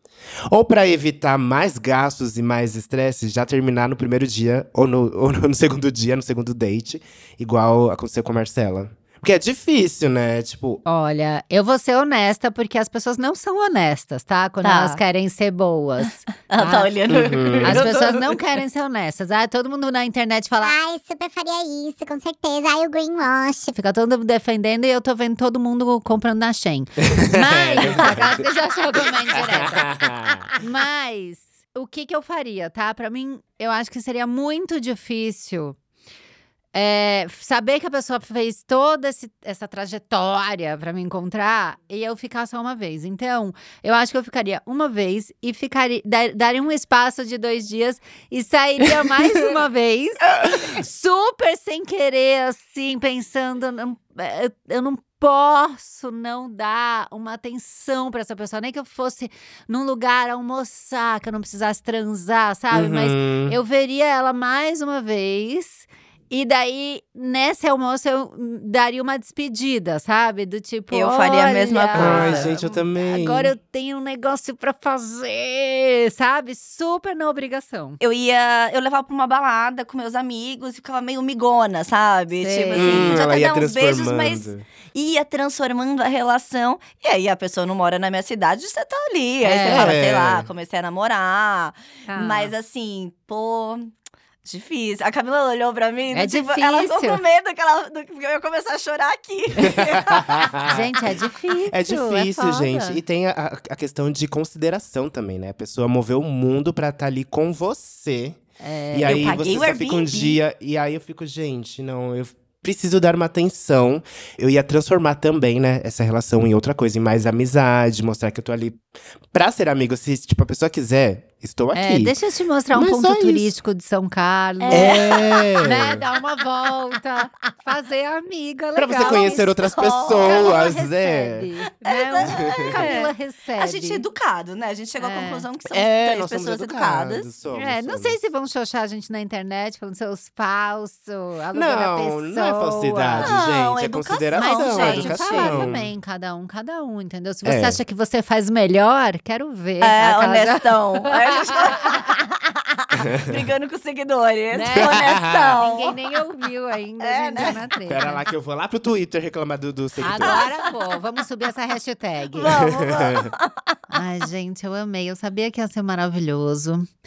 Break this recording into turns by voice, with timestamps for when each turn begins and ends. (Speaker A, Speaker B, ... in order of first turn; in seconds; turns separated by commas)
Speaker A: 0.5-10.8, Speaker B: 10.8-16.9, Speaker C: 14.6-15.0, Speaker C: 16.5-18.4, Speaker A: 17.1-18.0, Speaker B: 17.6-20.7, Speaker D: 20.6-23.7, Speaker B: 23.7-29.9, Speaker A: 27.2-28.5, Speaker A: 29.2-30.5, Speaker B: 30.5-35.8, Speaker B: 36.7-78.0, Speaker A: 62.7-63.6, Speaker C: 70.9-72.6, Speaker A: 71.9-73.5, Speaker C: 78.0-93.9, Speaker B: 82.3-83.2, Speaker A: 82.7-84.6, Speaker B: 89.4-89.9, Speaker A: 89.6-90.5, Speaker B: 92.1-92.5, Speaker C: 94.4-100.5, Speaker B: 96.1-97.2, Speaker A: 99.7-100.8, Speaker B: 100.7-103.0, Speaker A: 101.7-108.4, Speaker B: 108.6-109.7, Speaker A: 108.9-122.2, Speaker C: 109.0-110.4, Speaker B: 121.7-125.1, Speaker A: 122.7-123.5, Speaker C: 124.6-126.0, Speaker A: 124.7-126.0, Speaker B: 125.6-129.5, Speaker A: 128.8-131.5, Speaker C: 129.0-130.6, Speaker B: 130.1-134.0, Speaker C: 131.8-137.3, Speaker A: 132.2-132.9, Speaker B: 135.0-135.4, Speaker A: 135.7-138.2, Speaker B: 137.5-143.3, Speaker A: 141.5-145.9, Speaker C: 143.2-145.7, Speaker B: 144.3-152.1, Speaker A: 147.4-147.8, Speaker C: 149.8-155.9, Speaker A: 153.0-153.4, Speaker B: 154.5-158.2, Speaker A: 154.7-155.6, Speaker C: 157.0-157.6, Speaker A: 157.4-160.4, Speaker B: 160.0-162.6, Speaker C: 160.2-160.7, Speaker C: 162.3-163.7, Speaker A: 162.5-163.3, Speaker B: 163.9-166.9